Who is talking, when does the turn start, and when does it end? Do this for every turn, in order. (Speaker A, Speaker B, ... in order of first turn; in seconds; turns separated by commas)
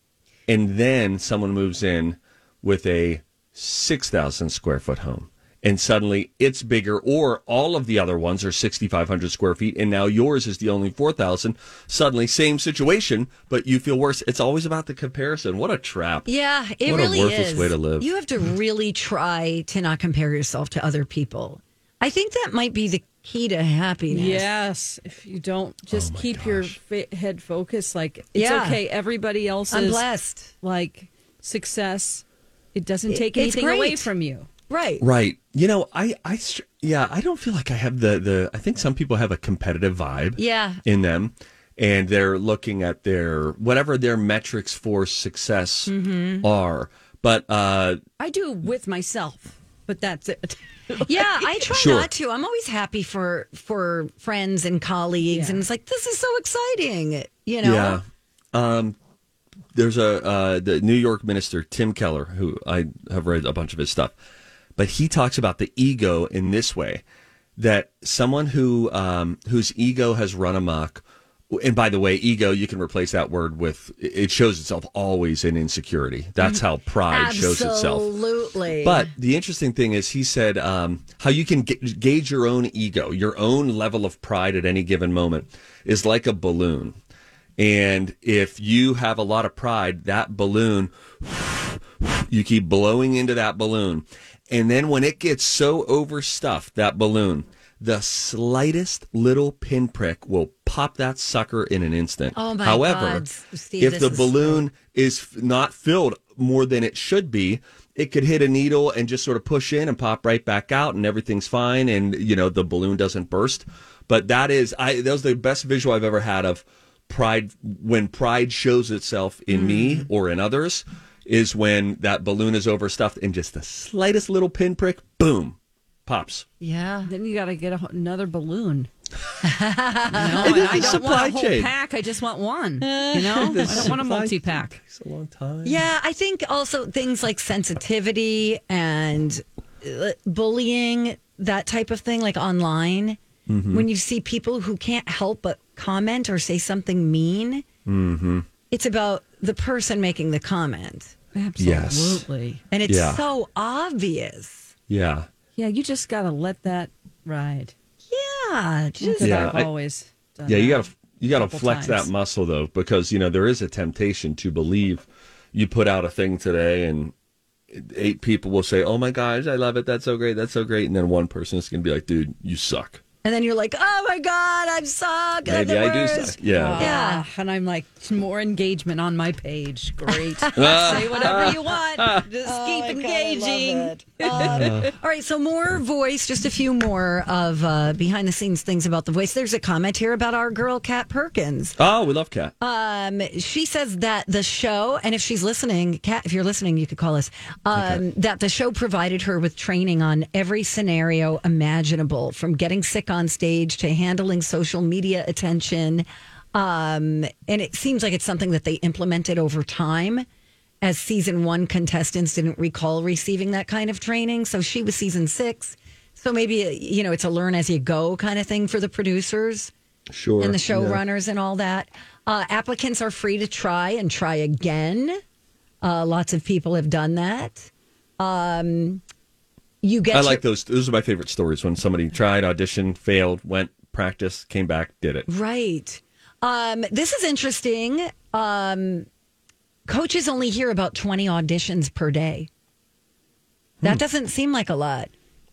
Speaker A: 0.5-16.3, Speaker B: 16.2-24.5, Speaker A: 16.8-18.1, Speaker C: 24.1-30.0, Speaker A: 25.9-26.8, Speaker B: 28.3-28.8, Speaker B: 29.7-30.5, Speaker C: 30.6-34.5, Speaker B: 33.1-34.1, Speaker B: 34.7-35.0, Speaker A: 35.0-48.0, Speaker B: 40.4-40.8, Speaker B: 45.9-46.5, Speaker C: 48.2-51.5, Speaker B: 51.0-58.0, Speaker A: 51.7-52.1, Speaker C: 55.3-55.6, Speaker A: 57.6-59.0, Speaker A: 59.7-64.1, Speaker A: 64.8-67.0, Speaker A: 67.6-78.1, Speaker B: 77.1-79.1, Speaker A: 78.8-87.0, Speaker A: 87.6-103.2, Speaker B: 102.3-104.6, Speaker A: 103.8-126.5, Speaker B: 119.5-120.1, Speaker B: 126.6-127.1, Speaker C: 127.0-128.9, Speaker B: 129.4-131.0, Speaker C: 130.1-134.7, Speaker A: 130.4-131.7, Speaker B: 132.8-133.9, Speaker A: 133.4-135.8, Speaker B: 135.6-143.2, Speaker A: 143.5-143.8, Speaker B: 143.7-147.6, Speaker A: 147.8-148.5, Speaker B: 148.7-151.1, Speaker C: 151.3-152.6, Speaker A: 151.6-152.2, Speaker B: 152.7-154.7, Speaker A: 152.9-153.2, Speaker A: 154.9-155.3, Speaker C: 155.6-157.7, Speaker B: 158.1-159.5, Speaker C: 159.0-162.1, Speaker A: 159.2-159.7, Speaker A: 160.4-167.1, Speaker A: 167.7-173.0, Speaker B: 173.2-177.2, Speaker A: 175.4-176.9, Speaker C: 176.5-184.9, Speaker B: 180.3-181.8, Speaker A: 180.6-182.2, Speaker B: 182.4-191.8, Speaker A: 184.3-184.9, Speaker A: 191.8-192.5, Speaker B: 192.6-210.2, Speaker A: 197.7-198.0, Speaker B: 210.8-219.7, Speaker A: 220.1-221.0, Speaker B: 220.4-225.2, Speaker B: 225.8-229.0, Speaker B: 229.8-230.4, Speaker A: 230.1-235.3, Speaker B: 235.3-239.1, Speaker B: 239.9-242.5, Speaker B: 243.8-245.1